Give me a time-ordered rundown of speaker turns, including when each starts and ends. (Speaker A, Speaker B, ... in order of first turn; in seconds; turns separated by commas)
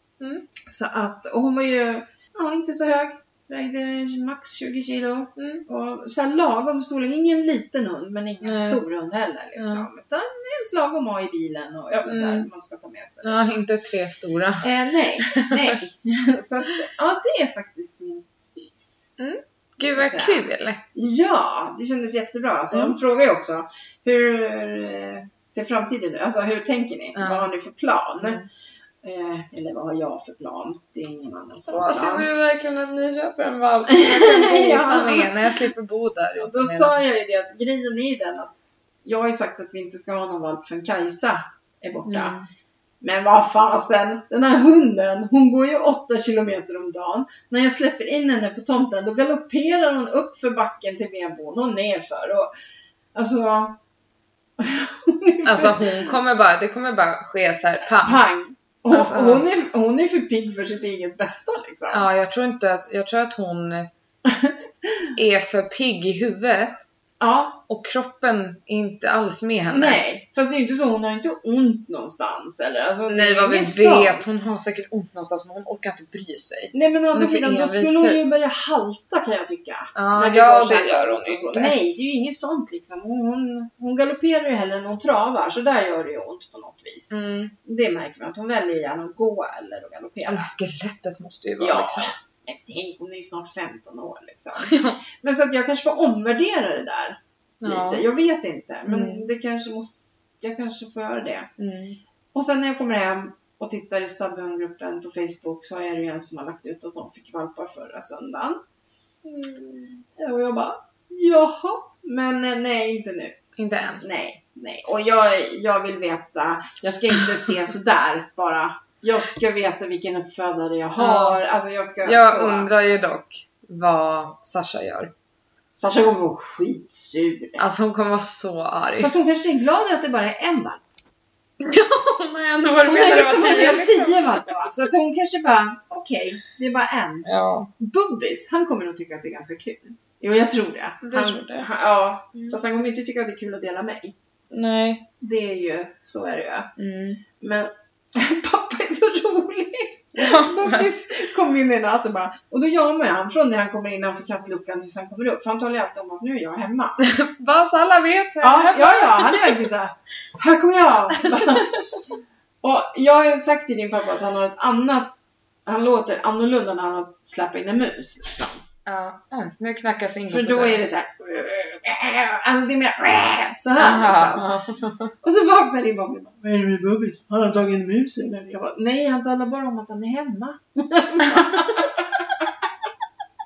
Speaker A: 0.2-0.5, Speaker B: 0.6-13.6, Speaker A: 5.4-5.7, Speaker A: 8.4-8.8, Speaker A: 9.6-9.9, Speaker A: 12.1-12.5, Speaker A: 13.2-14.7, Speaker B: 14.6-19.2, Speaker A: 15.3-15.8, Speaker A: 19.2-20.8, Speaker B: 19.8-28.4, Speaker A: 27.1-27.5, Speaker A: 28.2-28.5, Speaker B: 29.0-32.3, Speaker A: 31.7-37.0, Speaker B: 33.9-35.5, Speaker B: 36.4-42.4, Speaker A: 42.1-42.5, Speaker B: 43.0-52.5, Speaker B: 53.1-53.8, Speaker B: 54.6-56.1, Speaker A: 55.5-58.2, Speaker B: 58.0-62.1, Speaker A: 58.9-59.5, Speaker A: 61.9-63.9, Speaker B: 64.3-65.1, Speaker A: 65.2-66.9, Speaker B: 67.2-67.6, Speaker A: 67.7-70.0, Speaker B: 69.7-74.3, Speaker A: 73.1-78.2, Speaker B: 76.7-90.5, Speaker A: 80.0-81.8, Speaker A: 87.1-87.5, Speaker A: 90.2-92.1, Speaker B: 91.6-101.5, Speaker A: 94.6-95.0, Speaker A: 97.6-98.0, Speaker A: 98.9-99.3, Speaker A: 101.6-102.0, Speaker B: 102.3-108.6, Speaker A: 109.2-110.0, Speaker B: 110.2-113.4, Speaker A: 113.6-114.0, Speaker B: 114.0-122.7, Speaker A: 121.0-121.4, Speaker A: 122.0-125.1, Speaker B: 125.7-127.7, Speaker A: 127.6-129.1, Speaker B: 129.0-130.8, Speaker A: 131.6-134.8, Speaker B: 132.8-144.2, Speaker A: 137.2-137.7, Speaker A: 141.0-141.7, Speaker A: 144.5-145.1, Speaker B: 145.2-146.7, Speaker A: 146.8-147.2, Speaker B: 147.4-157.0, Speaker A: 150.2-150.9, Speaker A: 157.0-159.6, Speaker B: 158.4-162.1, Speaker A: 161.2-161.8, Speaker B: 162.6-168.6, Speaker A: 168.9-170.8, Speaker B: 170.3-174.5, Speaker A: 173.8-175.1, Speaker B: 175.2-182.5, Speaker A: 181.3-181.8